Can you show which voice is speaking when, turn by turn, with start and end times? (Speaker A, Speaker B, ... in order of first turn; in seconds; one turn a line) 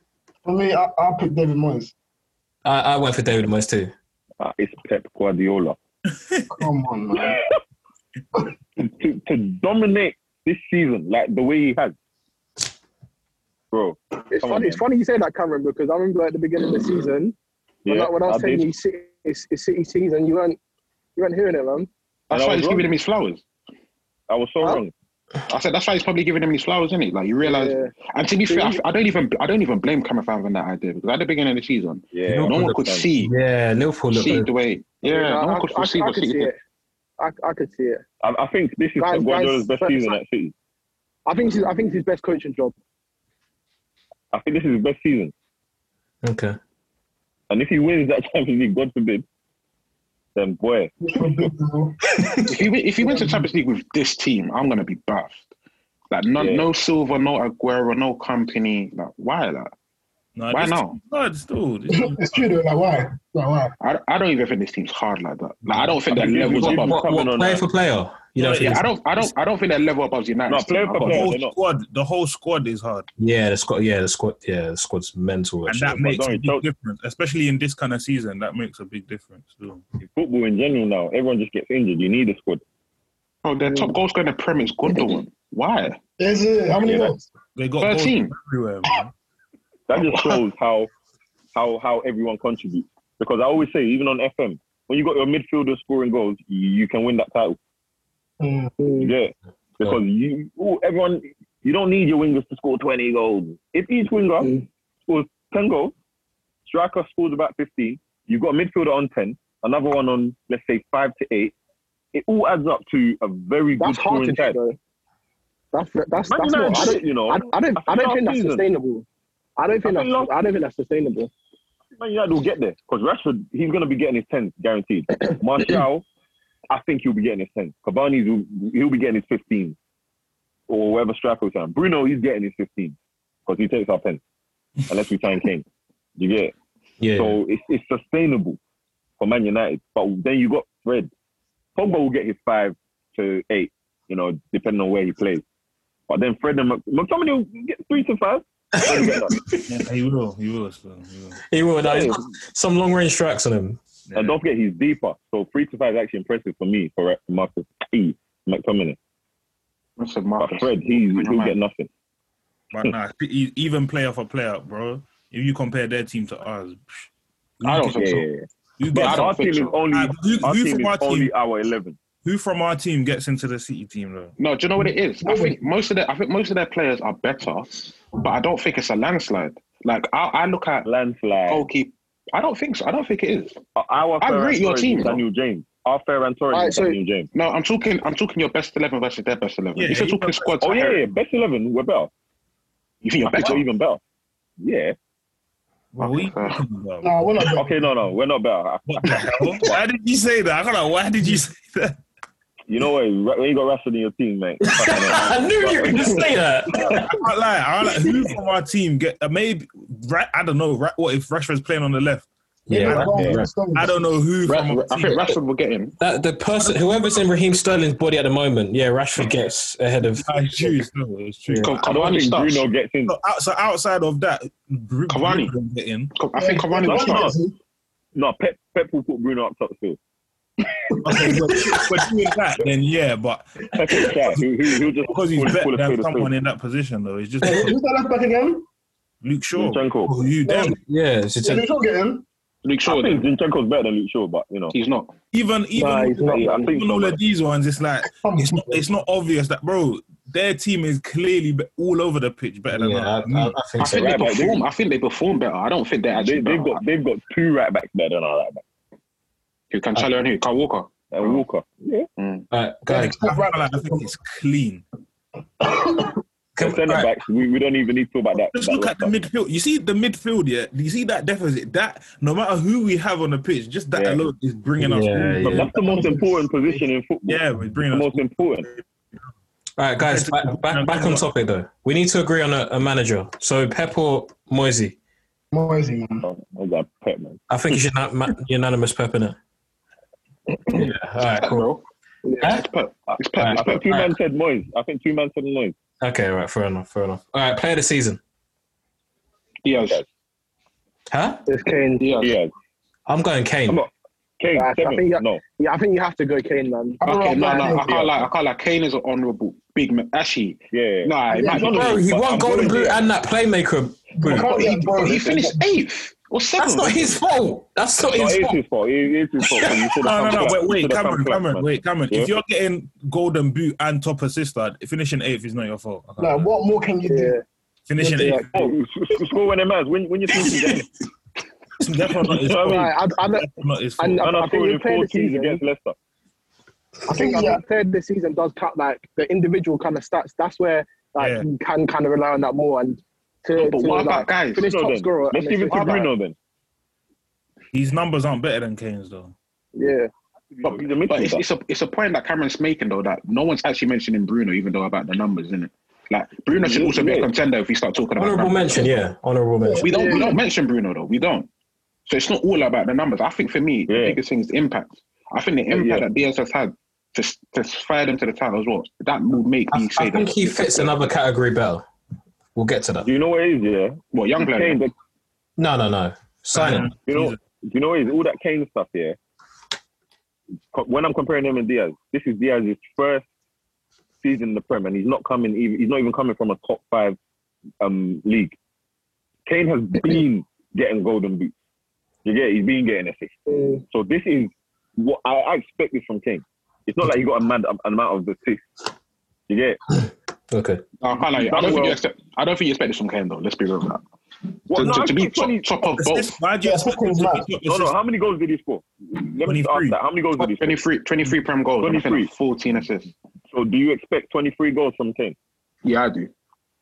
Speaker A: 0.4-1.9
Speaker B: 2.6-3.9
Speaker C: 4.4-5.8
Speaker D: 6.3-6.7
Speaker A: 6.5-7.4
Speaker C: 7.1-7.4
Speaker C: 8.8-11.9
Speaker C: 13.7-14.8
Speaker E: 14.3-17.4
Speaker C: 17.8-18.7
Speaker E: 17.9-20.6
Speaker E: 21.1-21.9
Speaker F: 22.3-23.4
Speaker C: 22.3-22.9
Speaker C: 24.3-24.9
Speaker F: 25.5-33.3
Speaker E: 27.4-27.9
Speaker E: 28.4-28.8
Speaker C: 32.1-33.1
Speaker B: 32.2-34.5
Speaker F: 34.1-36.5
Speaker E: 35.0-36.6
Speaker E: 37.2-38.0
Speaker C: 38.2-40.5
Speaker E: 39.0-40.2
Speaker E: 41.3-42.7
Speaker C: 44.3-45.3
Speaker B: 46.2-46.5
Speaker C: 47.5-49.2
Speaker C: 50.3-51.5
Speaker A: 51.0-52.5
Speaker F: 52.5-55.4
Speaker A: 53.0-53.4
Speaker F: 56.1-59.7
Speaker C: 56.4-56.7
Speaker D: 60.4-62.5
Speaker F: 60.5-61.0
Speaker A: 61.9-63.7
Speaker F: 63.8-67.0
Speaker D: 65.7-66.7
Speaker C: 66.1-67.7
Speaker B: 66.5-69.3
Speaker F: 68.4-71.3
Speaker D: 68.4-68.7
Speaker C: 70.5-71.5
Speaker D: 71.0-73.1
Speaker B: 73.2-76.0
Speaker D: 75.7-79.8
Speaker C: 76.0-76.6
Speaker C: 80.0-82.6
Speaker F: 83.4-86.0
Speaker A: 86.2-87.3
Speaker D: 87.5-89.1
Speaker F: 87.8-88.3
Speaker C: 89.9-90.9
Speaker C: 91.5-97.6
Speaker A: 98.4-98.7
Speaker E: 98.8-99.1
Speaker C: 99.0-104.5
Speaker C: 105.1-105.9
Speaker C: 106.7-111.5
Speaker C: 112.1-114.6
Speaker E: 113.8-114.8
Speaker E: 115.7-119.0
Speaker C: 116.3-118.6
Speaker E: 119.6-121.3
Speaker C: 119.8-120.3
Speaker C: 122.0-126.0
Speaker C: 126.7-129.8
Speaker C: 130.7-134.2
Speaker C: 134.9-135.7
Speaker C: 136.2-136.5
Speaker B: 137.0-137.4
Speaker C: 137.2-138.6
Speaker C: 139.2-141.1
Speaker C: 141.8-145.4
Speaker C: 146.1-149.4
Speaker B: 148.7-149.6
Speaker D: 149.7-151.4
Speaker B: 151.5-153.8
Speaker C: 151.8-152.3
Speaker D: 154.1-154.4
Speaker C: 154.1-159.0
Speaker F: 160.0-161.6
Speaker C: 160.4-161.9
Speaker D: 162.7-167.1
Speaker D: 167.6-168.2
Speaker F: 167.6-168.2
Speaker C: 167.9-172.0
Speaker D: 168.8-171.3
Speaker F: 168.9-169.7
Speaker D: 172.2-174.3
Speaker F: 174.4-180.8
Speaker A: 174.8-175.6
Speaker C: 180.8-181.7
Speaker F: 181.5-183.6
Speaker C: 183.8-187.3
Speaker F: 184.2-185.2
Speaker E: 186.5-187.0
Speaker F: 187.3-191.0
Speaker D: 189.8-190.5
Speaker C: 190.6-192.1
Speaker F: 193.0-193.7
Speaker C: 193.2-194.0
Speaker C: 194.6-194.9
Speaker D: 195.9-197.1
Speaker F: 196.0-196.6
Speaker A: 197.0-197.8
Speaker C: 197.5-199.2
Speaker D: 198.9-202.0
Speaker C: 202.7-207.0
Speaker B: 204.6-207.1
Speaker D: 207.1-212.3
Speaker B: 212.7-213.5
Speaker A: 212.7-214.0
Speaker D: 212.8-215.4
Speaker C: 213.1-213.4
Speaker F: 214.4-215.9
Speaker B: 216.0-220.8
Speaker D: 220.2-221.8
Speaker B: 221.5-221.7
Speaker F: 221.6-222.6
Speaker C: 221.8-223.1
Speaker D: 223.1-226.1
Speaker F: 225.1-225.5
Speaker F: 226.1-227.3
Speaker A: 226.3-227.5
Speaker C: 226.8-227.3
Speaker C: 228.1-230.0
Speaker A: 230.9-231.9
Speaker D: 231.0-234.4
Speaker C: 233.7-236.3
Speaker D: 235.1-237.8
Speaker A: 237.4-238.7
Speaker D: 239.2-240.8
Speaker C: 239.6-240.1
Speaker A: 240.4-240.8
Speaker B: 240.7-241.7
Speaker A: 241.4-242.2
Speaker F: 242.6-243.2
Speaker C: 242.8-244.7
Speaker F: 244.7-245.1
Speaker D: 245.3-253.6
Speaker E: 245.8-246.7
Speaker C: 246.2-247.2
Speaker A: 248.1-248.9
Speaker B: 252.7-254.1
Speaker F: 253.8-256.8
Speaker C: 253.8-254.6
Speaker C: 256.1-258.6
Speaker F: 259.7-261.4
Speaker C: 261.1-262.1
Speaker F: 262.2-262.5
Speaker B: 262.5-263.3
Speaker A: 262.9-264.1
Speaker D: 262.9-264.8
Speaker A: 265.6-266.2
Speaker B: 266.6-267.1
Speaker C: 266.6-269.1
Speaker D: 268.5-275.6
Speaker C: 273.9-274.2
Speaker B: 274.8-275.7
Speaker C: 275.4-278.7
Speaker A: 275.6-276.8
Speaker D: 277.3-278.8
Speaker B: 279.8-284.9
Speaker D: 280.0-281.3
Speaker A: 285.5-286.3
Speaker C: 286.2-287.4
Speaker B: 287.5-289.4
Speaker B: 290.7-291.7
Speaker F: 290.7-291.8
Speaker E: 292.2-292.5
Speaker B: 292.4-292.6
Speaker F: 292.4-294.0
Speaker C: 293.1-295.8
Speaker B: 293.4-294.1
Speaker B: 296.0-298.2
Speaker F: 299.6-300.0
Speaker B: 301.1-301.4
Speaker E: 301.5-302.2
Speaker F: 302.0-302.4
Speaker C: 302.2-302.5
Speaker B: 303.1-303.8
Speaker C: 303.7-305.4
Speaker E: 304.5-307.7
Speaker A: 307.0-308.0
Speaker F: 307.0-312.0
Speaker C: 307.9-308.1
Speaker C: 310.7-313.1
Speaker B: 311.5-314.7
Speaker A: 314.2-315.6
Speaker C: 314.3-315.5
Speaker F: 314.9-317.2
Speaker B: 316.6-318.6
Speaker C: 318.0-322.3
Speaker D: 320.0-326.5
Speaker A: 326.2-327.3
Speaker E: 327.1-327.4
Speaker D: 327.9-328.8
Speaker E: 328.0-328.5
Speaker C: 328.5-330.9
Speaker D: 331.8-334.3
Speaker C: 332.4-332.8
Speaker E: 332.5-335.6
Speaker C: 334.2-335.9
Speaker A: 337.1-337.6
Speaker E: 337.1-346.1
Speaker D: 341.2-341.4
Speaker F: 343.6-344.7
Speaker C: 344.6-346.3
Speaker D: 347.7-349.3
Speaker E: 349.8-350.1
Speaker C: 350.5-351.4
Speaker F: 350.6-359.0
Speaker C: 356.5-357.3
Speaker B: 358.2-359.9
Speaker A: 359.6-360.3
Speaker F: 359.8-361.5
Speaker E: 359.9-360.3
Speaker F: 362.1-371.0
Speaker C: 363.9-364.2
Speaker C: 365.7-366.1
Speaker B: 369.7-371.8
Speaker B: 372.5-373.1
Speaker C: 373.0-374.9
Speaker F: 374.1-374.8
Speaker B: 375.6-376.9
Speaker D: 376.5-377.4
Speaker C: 377.1-379.2
Speaker C: 380.7-383.2
Speaker C: 384.2-387.2
Speaker C: 387.8-388.6
Speaker C: 389.4-391.5
Speaker C: 392.2-393.4
Speaker E: 393.5-393.8
Speaker C: 393.9-398.7
Speaker C: 399.5-399.8
Speaker B: 400.5-400.8
Speaker F: 401.0-404.0
Speaker C: 401.4-402.0
Speaker C: 404.7-405.6
Speaker F: 404.7-406.4
Speaker D: 405.8-407.9
Speaker A: 406.6-407.5
Speaker C: 407.6-410.8
Speaker D: 409.4-410.0
Speaker F: 410.4-413.1
Speaker C: 411.8-412.3
Speaker C: 413.5-415.4
Speaker F: 415.8-416.3